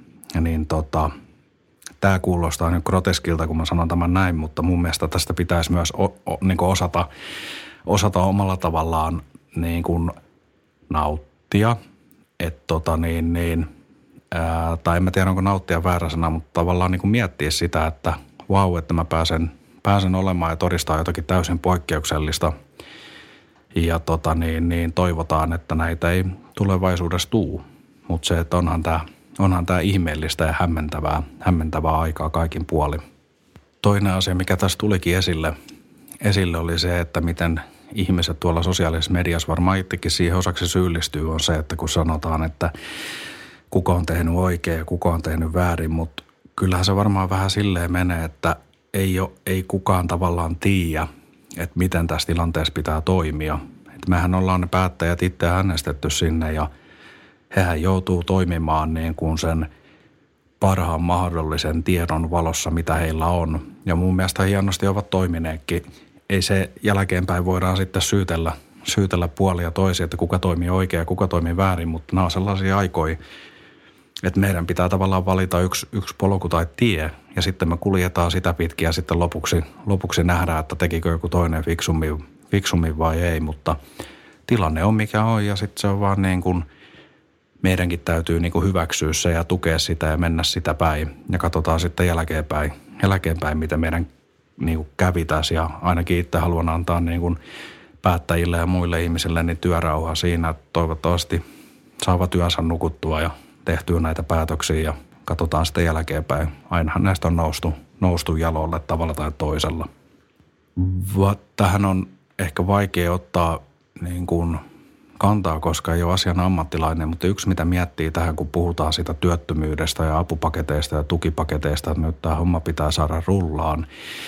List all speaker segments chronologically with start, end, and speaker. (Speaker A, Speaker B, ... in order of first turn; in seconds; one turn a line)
Speaker A: 0.3-1.1
Speaker A: 2.0-7.1
Speaker A: 7.9-10.2
Speaker A: 10.9-11.8
Speaker A: 12.4-13.7
Speaker A: 14.3-22.5
Speaker A: 23.8-33.0
Speaker A: 33.8-35.5
Speaker A: 36.2-42.7
Speaker A: 43.7-56.7
Speaker A: 57.5-59.7
Speaker A: 60.6-73.2
Speaker A: 74.2-83.8
Speaker A: 84.5-86.7
Speaker A: 87.6-94.1
Speaker A: 94.6-97.4
Speaker A: 98.0-101.4
Speaker A: 102.0-109.9
Speaker A: 110.8-114.6
Speaker A: 115.2-123.9